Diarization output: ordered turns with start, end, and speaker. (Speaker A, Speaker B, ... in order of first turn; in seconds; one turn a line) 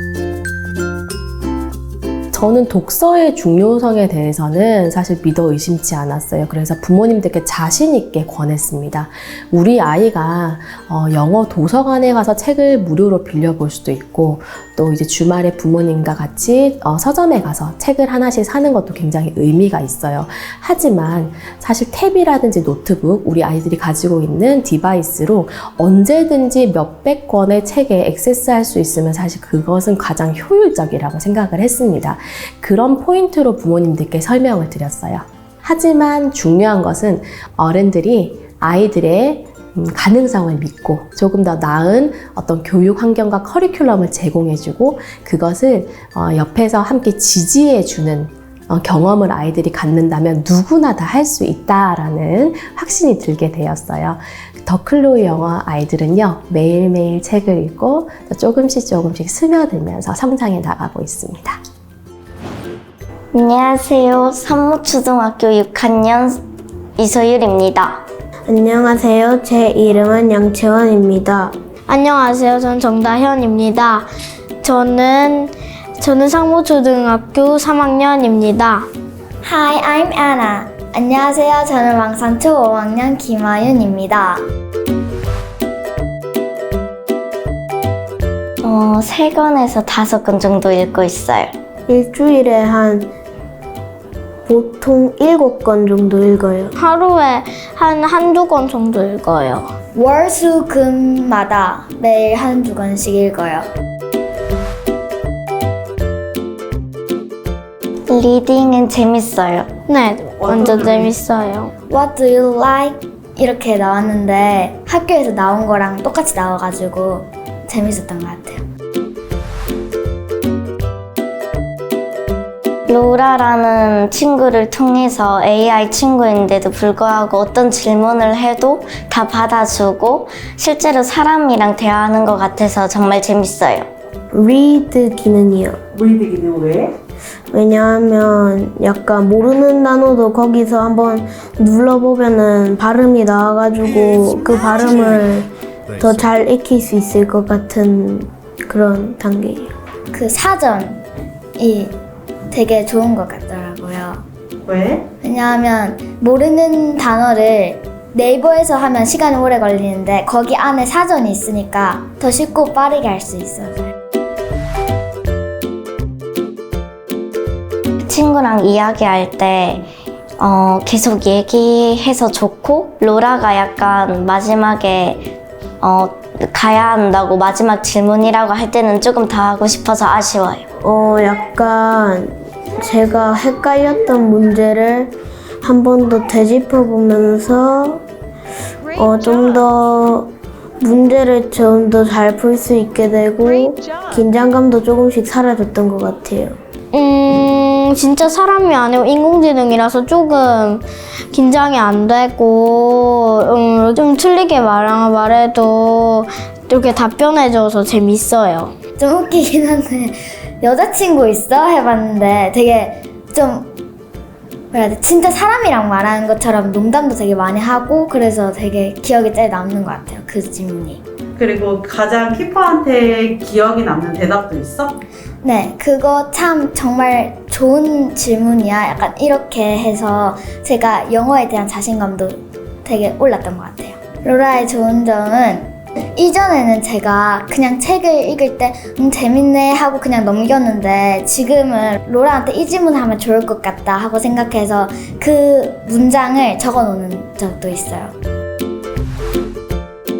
Speaker A: 2.3-61.6
Speaker B: 63.3-66.4
Speaker B: 67.0-68.0
Speaker C: 68.5-71.5
Speaker D: 71.9-74.1
Speaker D: 74.6-78.9
Speaker E: 79.4-84.4
Speaker B: 88.6-91.5
Speaker C: 91.9-93.1
Speaker C: 94.5-96.7
Speaker D: 96.8-99.7
Speaker E: 99.9-103.7
Speaker B: 108.1-109.7
Speaker D: 109.9-111.7
Speaker F: 110.4-111.1
Speaker E: 111.9-118.6
Speaker B: 122.9-133.9
Speaker C: 134.3-135.8
Speaker F: 136.0-136.9
Speaker C: 137.5-149.7
Speaker E: 150.1-151.0
Speaker E: 151.6-151.9
Speaker E: 152.5-154.2
Speaker F: 154.7-155.1
Speaker E: 155.2-163.9
Speaker B: 168.0-169.9
Speaker B: 170.4-175.3
Speaker B: 175.8-180.6
Speaker C: 180.8-188.0
Speaker C: 188.9-196.6
Speaker D: 196.9-208.7
Speaker E: 209.0-213.7
Speaker E: 214.7-221.0
Speaker F: 221.4-224.9
Speaker E: 225.4-248.1